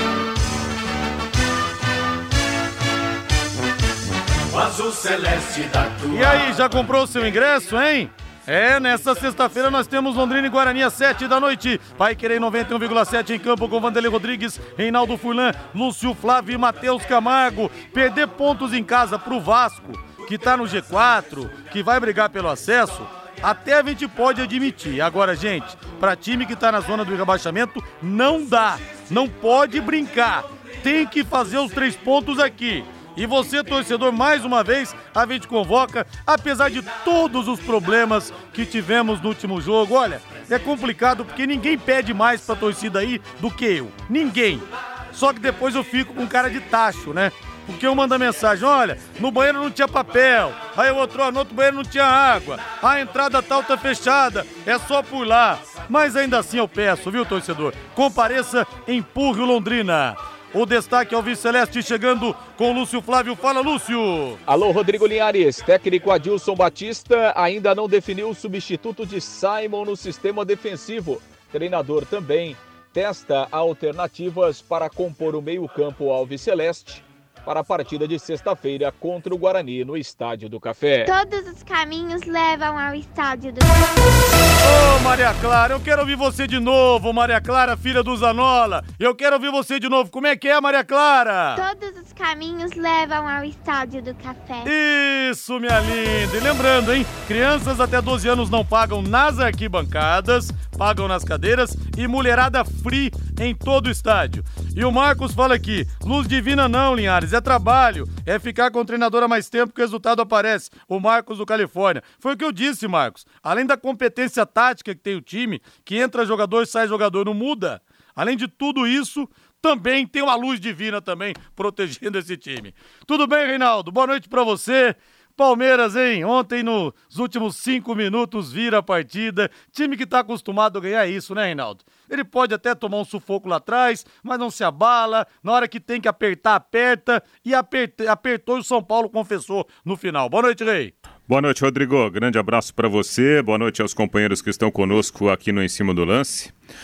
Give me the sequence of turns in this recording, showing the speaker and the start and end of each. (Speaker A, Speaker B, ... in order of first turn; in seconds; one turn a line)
Speaker A: 4.5-6.7
Speaker B: 6.1-64.4
Speaker C: 64.5-81.1
Speaker D: 81.0-84.3
Speaker B: 84.6-91.6
Speaker D: 91.5-94.7
Speaker B: 94.6-140.9
Speaker E: 141.3-146.5